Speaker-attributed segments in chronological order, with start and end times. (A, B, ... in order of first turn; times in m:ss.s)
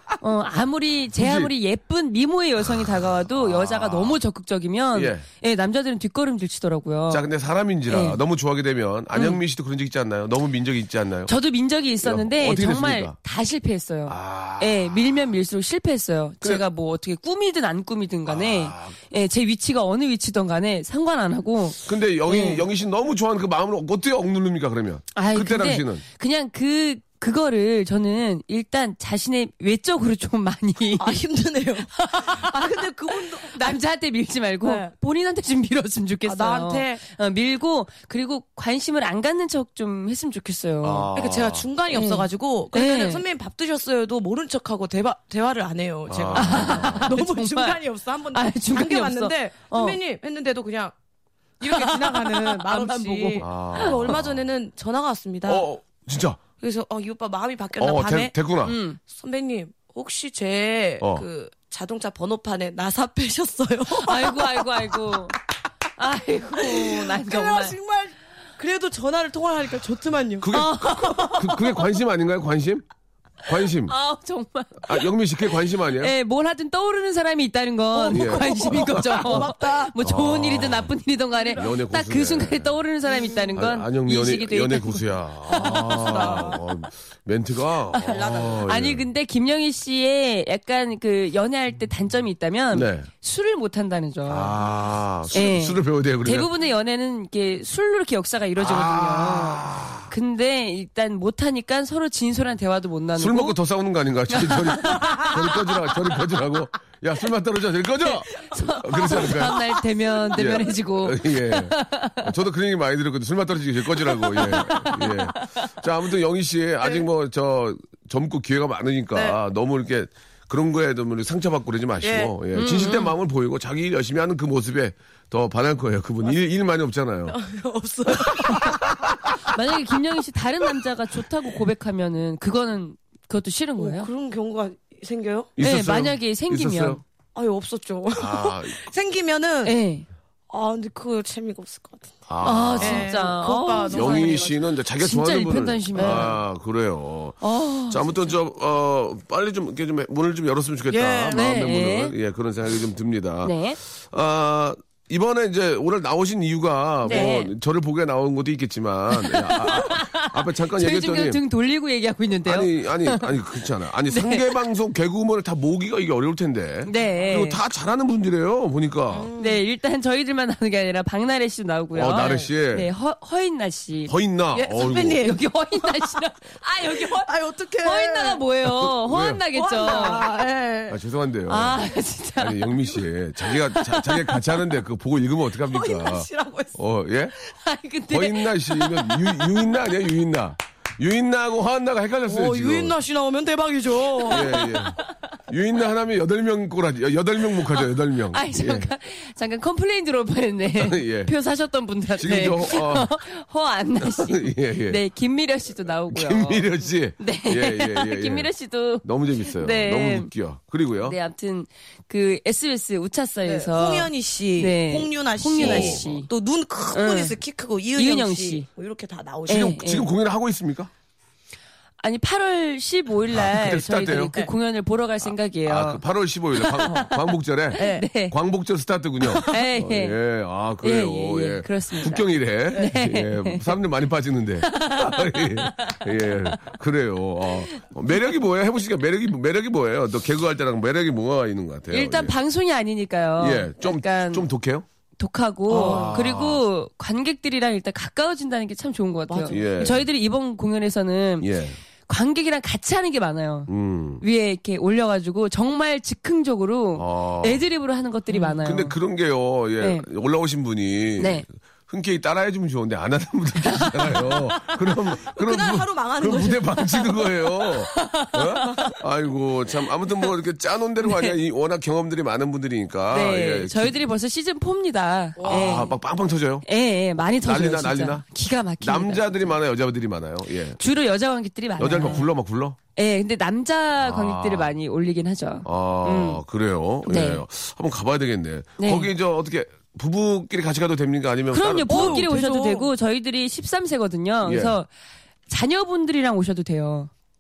0:00.2-0:07.2 A
0:01.2-0:01.5 B
0:02.7-0:04.2 B
0:05.0-0:05.2 B
0:07.1-0:11.3 B
0:07.9-0:08.2 A
0:09.1-0:09.4 A
0:11.3-0:22.6 A
0:12.0-0:13.2 B
0:14.1-0:15.2 B
0:18.3-0:19.0 B
0:21.8-0:26.0 B
0:25.2-0:31.2 A
0:31.0-0:33.8 C
0:31.9-0:41.1 A
0:34.6-0:34.9 C
0:36.2-0:37.0 C
0:40.8-0:41.7 B
0:41.1-0:50.9 C
0:41.9-0:43.2 A
0:46.1-0:47.2 B
0:46.4-0:47.8 A
0:48.3-0:50.0 A
0:51.6-0:55.7 C
0:51.6-0:53.9 A
0:53.4-0:54.5 B
0:55.5-0:56.4 B
0:56.6-0:58.3 C
0:57.8-0:58.8 B
0:58.6-0:59.0 A
0:59.0-1:05.2 C
1:03.9-1:05.4 A
1:06.0-1:07.8 A
1:06.6-1:11.5 C
1:10.4-1:12.8 B
1:10.5-1:11.7 A
1:13.5-1:13.9 B
1:13.8-1:15.1 A
1:14.8-1:16.1 B
1:15.8-1:26.4 A
1:17.9-1:19.9 C
1:18.1-1:19.4 B
1:20.0-1:20.9 B
1:21.4-1:21.6 C
1:21.6-1:22.7 B
1:23.6-1:29.1 B
1:25.5-1:26.6 C
1:28.0-1:28.7 C
1:28.0-1:34.6 A
1:32.7-1:33.1 B
1:34.3-1:36.5 B
1:35.3-1:43.6 A
1:38.6-1:40.1 B
1:43.2-1:49.7 B
1:44.3-1:45.3 A
1:48.0-1:52.3 A
1:50.4-2:07.4 B
1:54.1-1:55.5 A
1:59.1-1:59.4 C
2:02.0-2:02.4 C
2:02.5-2:03.1 A
2:07.3-2:08.9 C
2:08.1-2:09.4 B
2:09.4-2:14.1 A
2:13.8-2:15.5 C
2:15.6-2:17.0 B
2:15.6-2:17.0 A
2:17.4-2:19.8 C
2:18.2-2:18.8 B
2:19.6-2:20.1 A
2:20.5-2:22.2 C
2:22.3-2:23.1 B
2:22.4-2:26.4 A
2:22.8-2:24.6 C
2:23.9-2:41.4 B
2:26.0-2:26.3 C
2:27.4-2:28.0 A
2:30.9-2:31.4 C
2:31.3-2:32.1 A
2:33.4-2:33.8 A
2:37.0-2:37.5 A
2:39.1-2:43.4 A
2:42.4-2:49.3 B
2:44.0-2:44.6 A
2:46.9-2:47.6 A
2:47.0-2:47.3 C
2:49.1-2:49.6 C
2:49.4-2:54.1 A
2:51.9-2:52.9 B
2:54.1-2:55.2 B
2:54.5-2:58.4 C
2:55.0-2:57.2 A
2:57.8-3:00.3 A
2:58.7-2:59.4 B
2:59.5-3:01.0 C
3:00.9-3:01.8 B
3:01.5-3:02.8 A
3:02.4-3:07.3 B
3:05.6-3:06.8 C
3:07.5-3:09.5 A
3:08.1-3:12.9 B
3:12.3-3:14.8 C
3:14.3-3:18.9 B
3:14.5-3:14.9 A
3:18.3-3:30.3 A
3:20.8-3:21.3 B
3:22.2-3:23.1 B
3:24.0-3:25.0 B
3:26.1-3:28.5 B
3:29.0-3:31.2 B
3:31.0-3:36.3 A
3:33.4-3:39.7 C
3:35.6-3:36.0 B
3:36.9-3:37.4 A
3:38.0-3:38.7 A
3:39.5-3:40.1 A
3:39.5-3:40.9 B
3:42.0-3:46.0 A
3:43.3-3:44.3 B
3:45.7-4:02.4 B
3:46.6-3:47.2 A
3:47.7-3:48.4 A
3:47.8-3:48.1 C
3:49.4-3:50.2 A
3:50.8-3:53.8 A
3:54.6-3:56.6 A
4:01.9-4:04.5 A
4:03.4-4:04.9 B
4:05.2-4:11.5 A
4:05.7-4:06.6 B
4:05.7-4:06.2 C
4:09.3-4:09.9 C
4:09.5-4:10.0 B
4:11.4-4:11.8 B
4:12.1-4:19.0 A
4:13.7-4:14.2 B
4:17.0-4:17.6 B
4:18.6-4:34.0 B
4:19.8-4:20.1 A
4:21.2-4:21.5 A
4:23.7-4:24.8 A
4:25.2-4:27.7 C
4:27.9-4:28.9 A
4:31.0-4:31.4 A
4:33.1-4:35.9 A
4:35.4-4:35.9 C
4:35.5-4:36.7 B
4:36.6-4:39.6 A
4:37.4-4:38.3 B
4:38.8-4:40.8 B
4:40.8-4:42.3 A
4:41.8-4:42.8 B
4:43.0-4:46.4 A
4:44.0-4:44.7 B
4:45.6-4:52.3 B
4:47.1-4:47.4 A
4:48.8-4:49.1 A
4:51.5-4:54.9 A
4:51.9-4:52.9 C
4:54.4-4:54.8 B
4:55.5-4:57.1 A